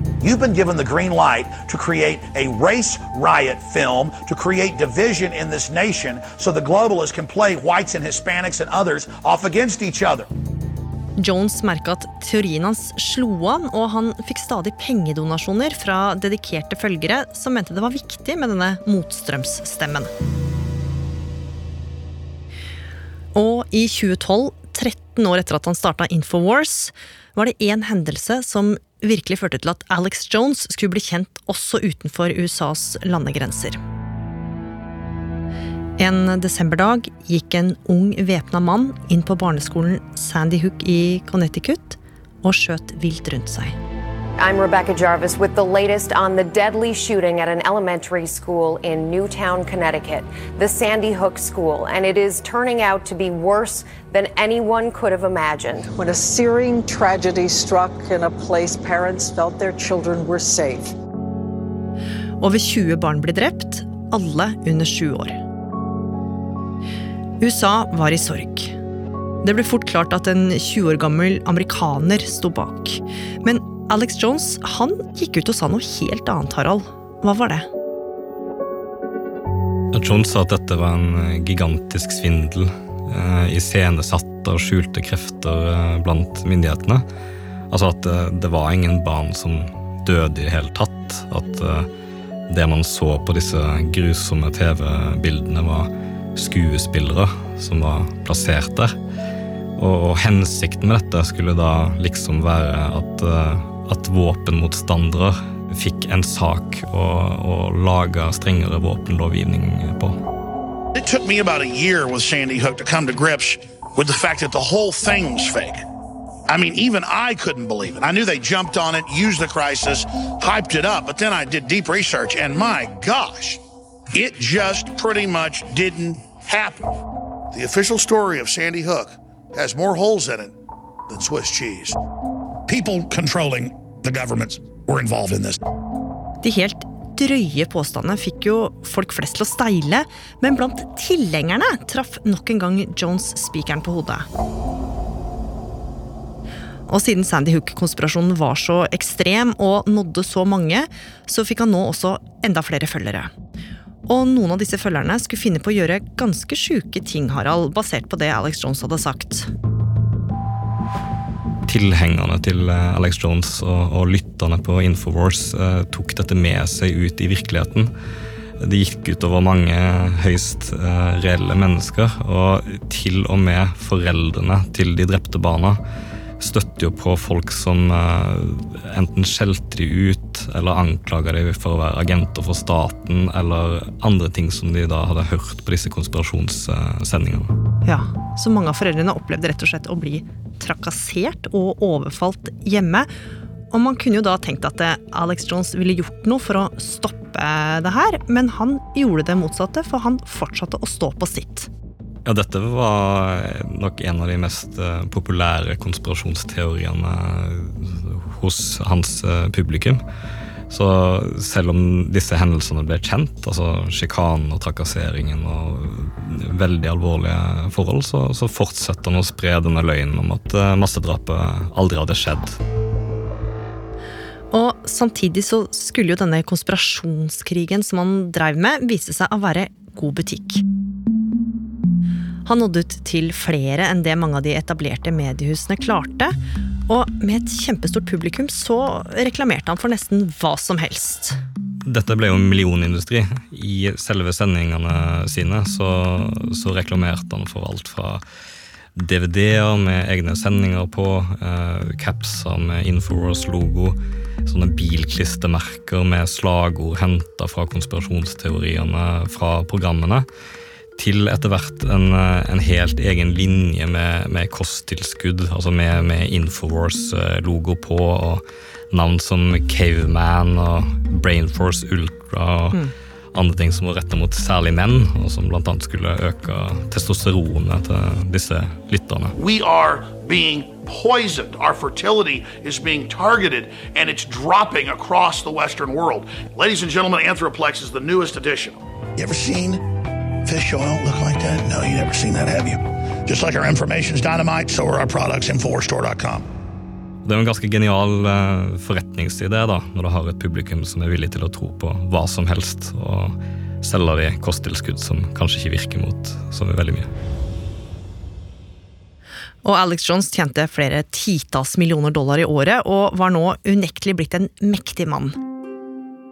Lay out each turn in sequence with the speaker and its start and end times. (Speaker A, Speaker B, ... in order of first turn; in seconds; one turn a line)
Speaker A: 0.2-10.3
Speaker B: 11.2-20.1
Speaker B: 23.4-33.8
Speaker B: 36.0-43.8
Speaker C: 44.4-55.9
Speaker D: 55.9-60.9
Speaker B: 62.4-65.4
Speaker B: 67.4-68.8
Speaker B: 69.4-77.7
Speaker E: 79.9-87.0
Speaker E: 87.7-91.9
Speaker E: 92.5-99.0
Speaker E: 99.8-110.2
Speaker A: 111.0-115.8
Speaker A: 116.5-123.6
Speaker A: 124.1-126.9
Speaker A: 127.5-130.5
Speaker A: 131.1-132.0
Speaker A: 132.7-135.6
Speaker B: 136.4-144.3
Speaker B: 146.9-153.3
Speaker B: 154.1-159.5
Speaker E: 161.7-167.9
Speaker E: 168.6-175.8
Speaker E: 176.4-187.5
Speaker B: 187.8-193.1
Speaker B: 193.7-201.7
Speaker E: 202.2-210.0
Speaker E: 210.7-222.6
Speaker B: 224.5-230.6
Speaker B: 232.5-236.4
Speaker B: 236.9-241.4
Speaker E: 241.8-248.2
Speaker E: 249.0-260.3
Speaker E: 261.0-272.8
Speaker E: 273.3-279.4
Speaker A: 279.4-289.8
Speaker A: 290.4-296.4
Speaker E: 297.2-307.1
Speaker B: 309.6-315.4